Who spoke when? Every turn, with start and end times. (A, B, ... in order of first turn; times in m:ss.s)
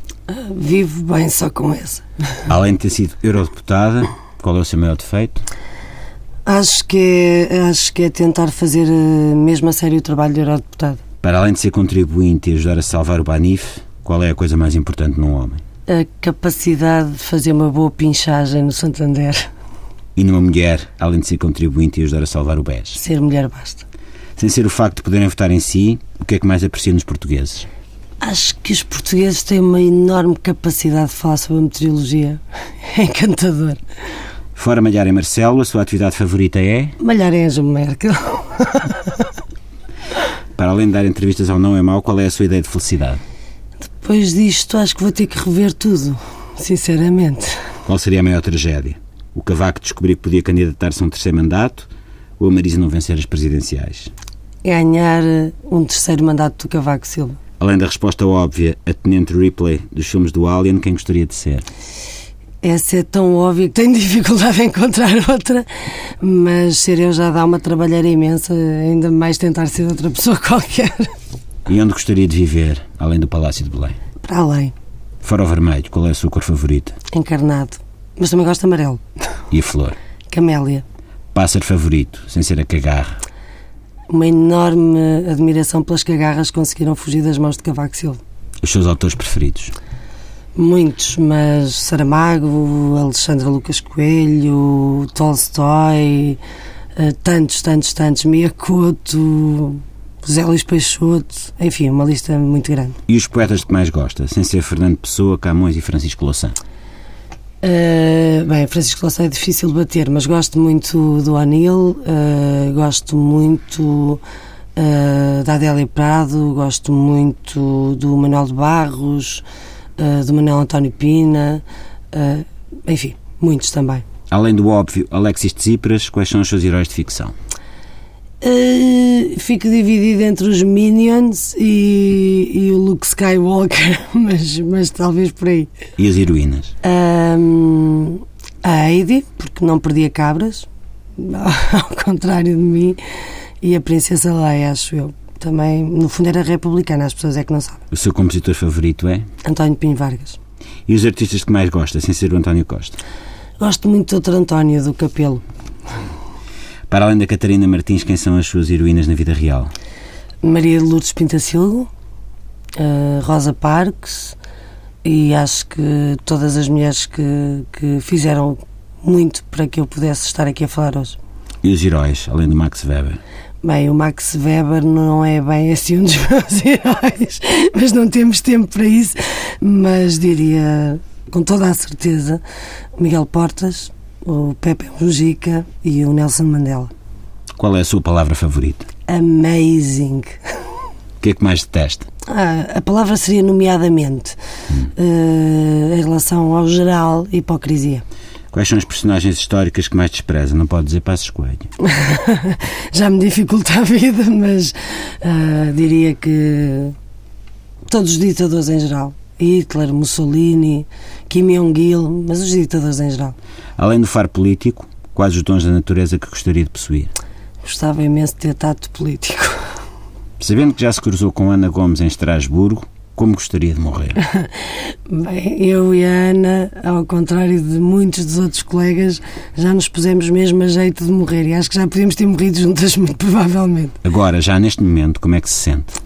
0:00.3-0:02.0 A
0:02.5-0:05.4 B
0:06.4-0:11.0 A
0:11.2-0:15.6 B
0:15.9-0:19.5 A
0:20.2-0:23.0 B
0:22.9-0:23.8 A
0:24.4-0:27.7 B
0:28.2-0:33.8 A
0:34.6-0:37.0 B
0:37.0-0:39.3 A
0:40.6-0:43.2 B
0:44.0-0:47.6 A
0:47.8-0:54.1 B
0:54.6-0:57.4 A
0:57.6-1:01.6 B
1:02.6-1:05.6 A
1:06.2-1:11.1 A
1:11.7-1:14.0 B
1:14.2-1:14.7 A
1:15.2-1:17.0 B
1:17.1-1:19.0 A
1:19.5-1:20.0 B
1:20.3-1:20.8 A
1:21.3-1:23.2 B
1:24.1-1:28.2 A
1:28.6-1:29.7 B
1:30.6-1:36.4 A
1:37.0-1:43.0 A
1:43.1-1:46.6 B
1:47.6-1:54.2 A
1:54.8-1:59.4 A
2:00.0-2:04.0 A
2:04.3-2:07.3 B
2:08.4-2:15.7 A
2:16.0-2:16.7 B
2:16.8-2:23.0 A
2:23.6-2:27.8 A
2:27.9-2:29.2 B
2:29.4-2:30.4 A
2:30.9-2:33.0 B
2:33.6-2:35.4 A
2:36.9-2:39.7 B
2:40.4-2:41.9 A
2:42.8-2:44.4 A
2:45.0-2:51.2 A
2:51.6-2:53.2 B
2:53.6-3:02.4 A
3:03.0-3:06.9 A
3:07.6-3:08.8 B
3:09.1-3:10.3 A
3:11.2-3:12.1 B
3:12.3-3:14.4 A
3:14.9-3:18.0 A
3:18.5-3:21.7 B
3:21.8-3:26.9 A
3:27.9-3:33.4 A
3:33.8-3:37.1 B
3:37.6-3:39.6 A
3:40.4-3:44.2 B
3:45.1-3:54.0 A
3:54.0-3:56.0 B